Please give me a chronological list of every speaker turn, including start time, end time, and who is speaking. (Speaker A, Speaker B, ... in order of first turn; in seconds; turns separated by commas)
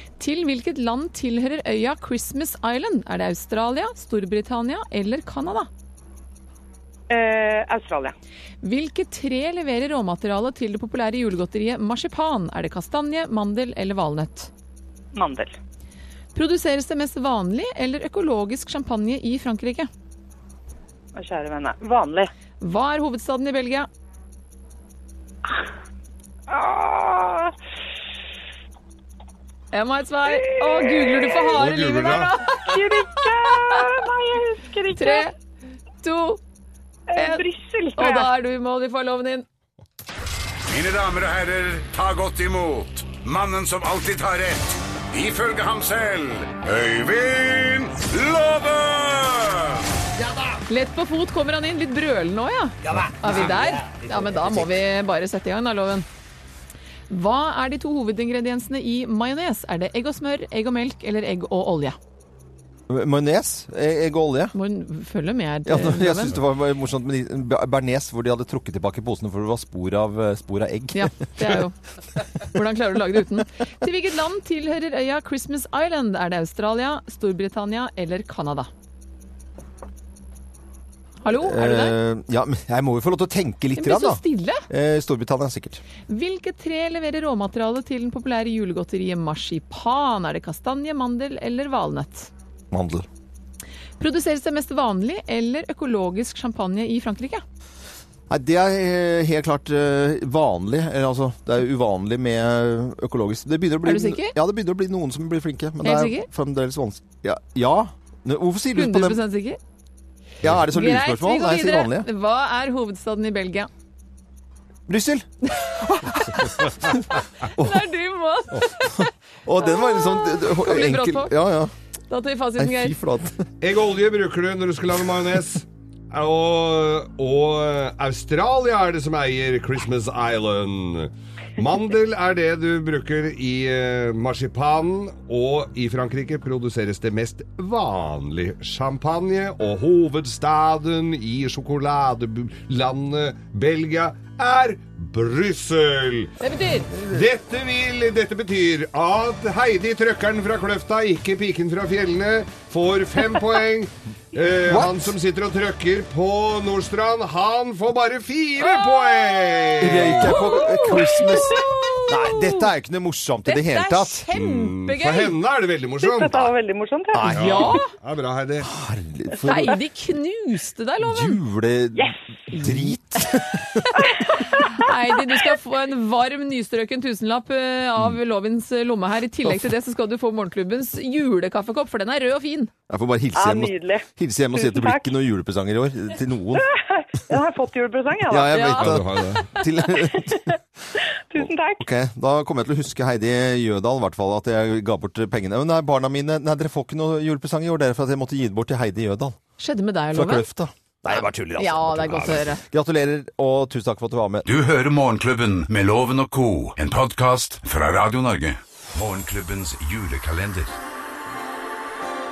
Speaker A: 0.2-5.7, Speaker B: 7.1-8.1, Speaker A: 8.6-14.5, Speaker B: 15.1-15.5, Speaker A: 16.3-19.9, Speaker B: 21.1-22.3, Speaker A: 22.6-23.9, Speaker B: 26.5-27.5, Speaker A: 29.7-33.9, Speaker B: 30.2-31.6, Speaker C: 31.5-32.3, Speaker B: 32.6-35.3, Speaker A: 34.9-35.3, Speaker A: 36.0-36.4, Speaker B: 37.1-38.3, Speaker A: 37.1-37.4, Speaker A: 38.0-39.4, Speaker D: 40.7-49.8, Speaker A: 50.7-56.0, Speaker E: 54.3-54.7, Speaker A: 57.1-62.0, Speaker E: 62.9-64.5, Speaker A: 64.5-66.4, Speaker E: 65.6-71.6, Speaker A: 70.9-71.7, Speaker A: 72.4-78.7, Speaker A: 81.2-81.9, Speaker E: 81.3-85.8, Speaker A: 83.8-84.7, Speaker A: 86.1-92.3, Speaker E: 92.7-93.0, Speaker A: 94.0-97.4, Speaker E: 98.3-109.2, Speaker A: 103.8-104.3, Speaker A: 105.8-106.3, Speaker A: 108.7-109.6, Speaker E: 110.4-112.1, Speaker A: 110.7-113.7, Speaker E: 114.9-116.7, Speaker A: 115.5-119.1, Speaker E: 117.5-117.9, Speaker E: 119.0-121.7, Speaker A: 119.6-121.3, Speaker A: 122.1-122.9, Speaker E: 122.6-123.4, Speaker C: 123.6-146.3, Speaker A: 146.4-146.9, Speaker E: 146.9-147.2, Speaker C: 147.0-160.5, Speaker E: 154.7-155.1, Speaker A: 158.6-159.3, Speaker E: 159.8-164.2, Speaker A: 160.0-162.6, Speaker A: 163.5-165.3, Speaker C: 164.3-166.5, Speaker B: 166.0-167.4, Speaker E: 167.1-167.7, Speaker C: 167.3-168.7, Speaker A: 167.3-167.9, Speaker E: 168.6-169.8, Speaker A: 169.4-171.4, Speaker E: 171.0-174.0, Speaker A: 172.5-173.3, Speaker B: 174.0-174.8, Speaker A: 174.0-182.7, Speaker E: 182.9-186.7, Speaker B: 183.3-185.1, Speaker B: 186.5-188.6, Speaker E: 188.3-190.6, Speaker A: 188.5-189.7, Speaker C: 188.7-189.5, Speaker B: 190.9-191.8, Speaker E: 191.4-199.4, Speaker A: 199.6-200.4, Speaker E: 200.1-204.4, Speaker A: 201.6-202.6, Speaker D: 204.4-210.8